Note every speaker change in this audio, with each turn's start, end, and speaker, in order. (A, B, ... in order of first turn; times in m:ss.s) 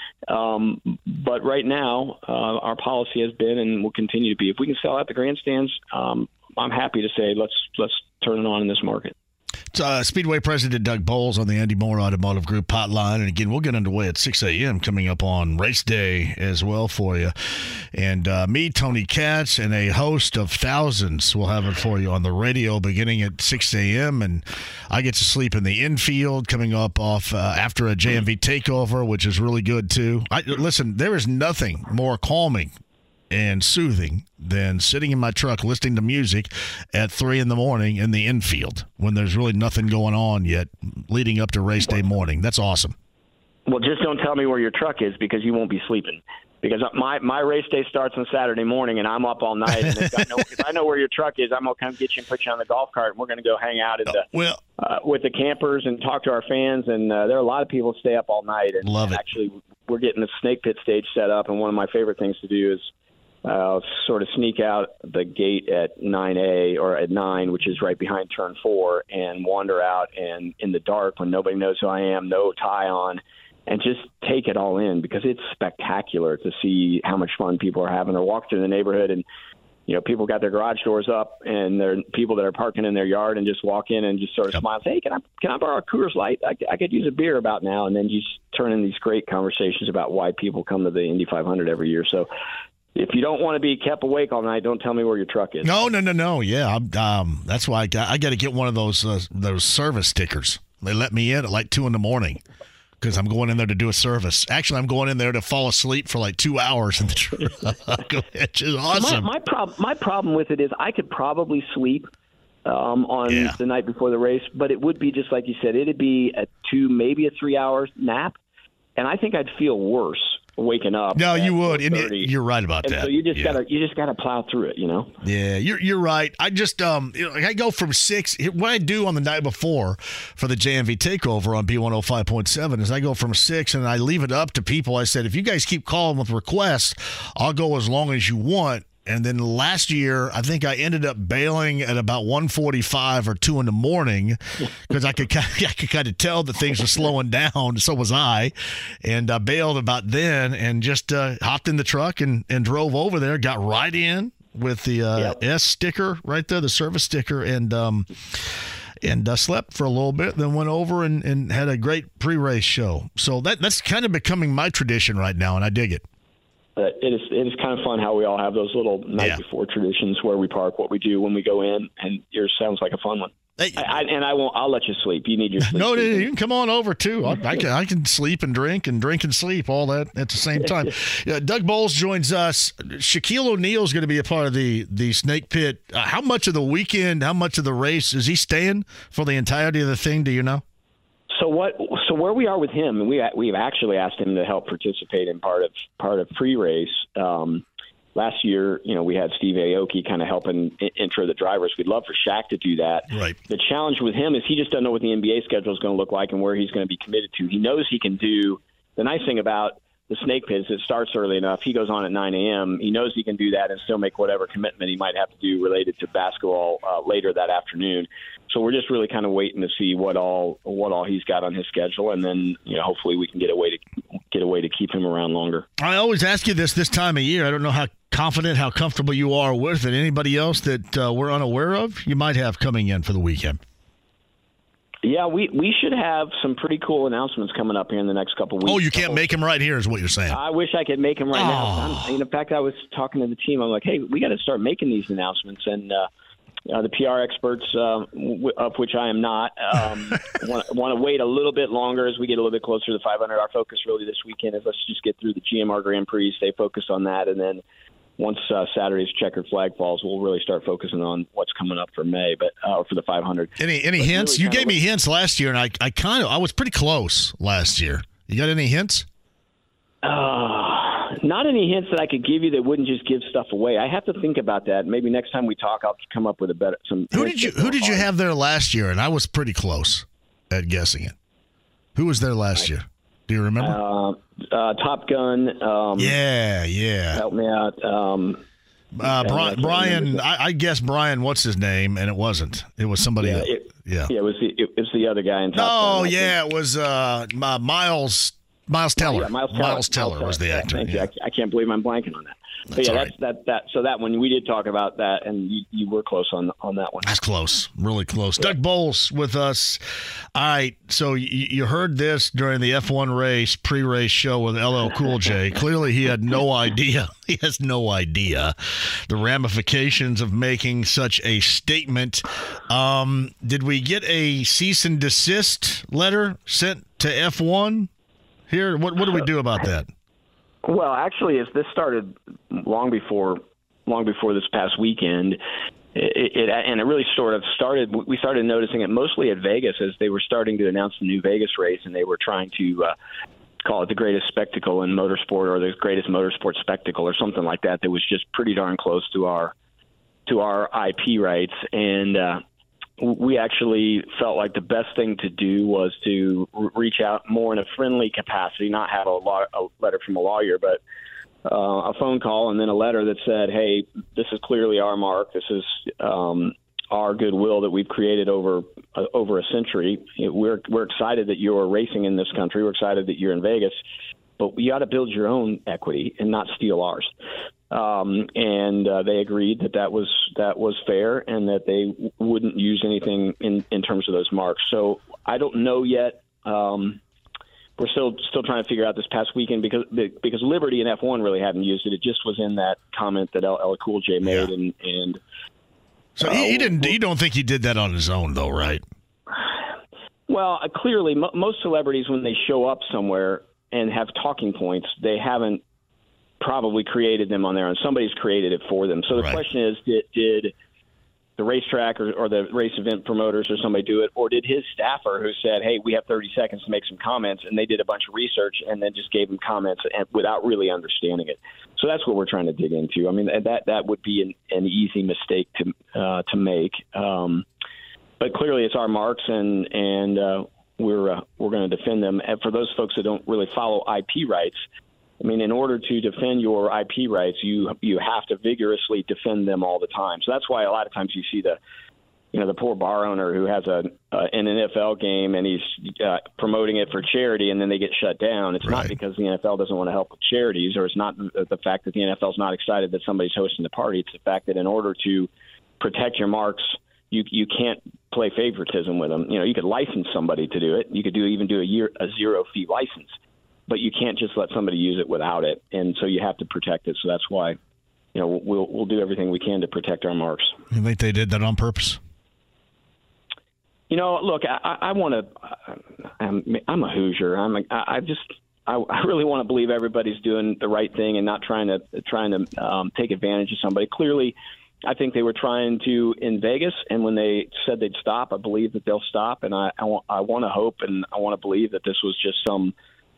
0:00.3-0:09.1 A
0:09.7-0:32.7 B
0:33.3-0:43.0 B
0:43.7-0:54.2 A
0:54.1-0:54.6 B
0:54.8-1:02.9 A
0:58.8-0:59.2 B
1:03.4-1:19.2 A
1:19.9-1:32.3 A
1:33.0-1:35.9 A
1:35.6-1:42.4 B
1:43.0-1:49.3 B
1:48.9-1:52.1 A
1:52.6-1:58.4 A
1:53.3-1:53.6 B
1:59.0-2:02.3 A
2:01.2-2:03.6 B
2:02.8-2:05.2 A
2:05.2-2:28.5 B
2:29.0-2:38.5 B
2:39.0-2:46.0 B
2:46.8-2:56.3 A
2:53.6-2:53.9 B
2:55.7-3:10.6 B
3:11.3-3:17.6 A
3:18.2-3:45.7 A
3:23.1-3:23.4 B
3:45.8-3:53.6 B
3:55.0-3:59.3 A
3:58.6-4:00.4 B
4:00.3-4:06.1 A
4:01.4-4:02.1 B
4:06.7-4:17.6 A
4:18.2-4:24.8 A
4:23.6-4:29.1 B
4:30.0-4:38.1 A
4:37.1-4:41.2 B
4:42.0-4:43.8 B
4:43.6-4:46.2 A
4:46.0-4:47.2 B
4:47.1-4:48.4 A
4:49.0-4:54.1 B
4:49.0-4:50.2 A
4:53.2-4:56.3 A
4:55.5-5:01.1 B
4:59.0-5:07.2 A
5:02.7-5:03.1 B
5:07.0-5:09.8 B
5:10.3-5:18.6 B
5:19.1-5:27.9 B
5:28.5-5:29.9 B
5:30.6-5:35.4 A
5:36.0-5:42.9 A
5:43.6-5:49.5 A
5:50.3-5:52.4 A
5:53.0-6:00.8 A
6:01.4-6:13.8 A
6:14.4-6:17.1 A
6:17.7-6:27.0 A
6:27.8-6:35.2 A
6:36.2-6:38.8 B
6:36.2-6:36.9 A
6:40.3-6:45.6 A
6:46.4-6:50.5 A
6:51.4-7:07.4 A
7:08.2-7:14.6 A
7:15.2-7:21.6 A
7:22.3-7:43.1 A
7:43.7-7:47.6 A
7:48.2-7:50.6 A
7:50.7-7:52.0 B
7:53.9-8:12.7 A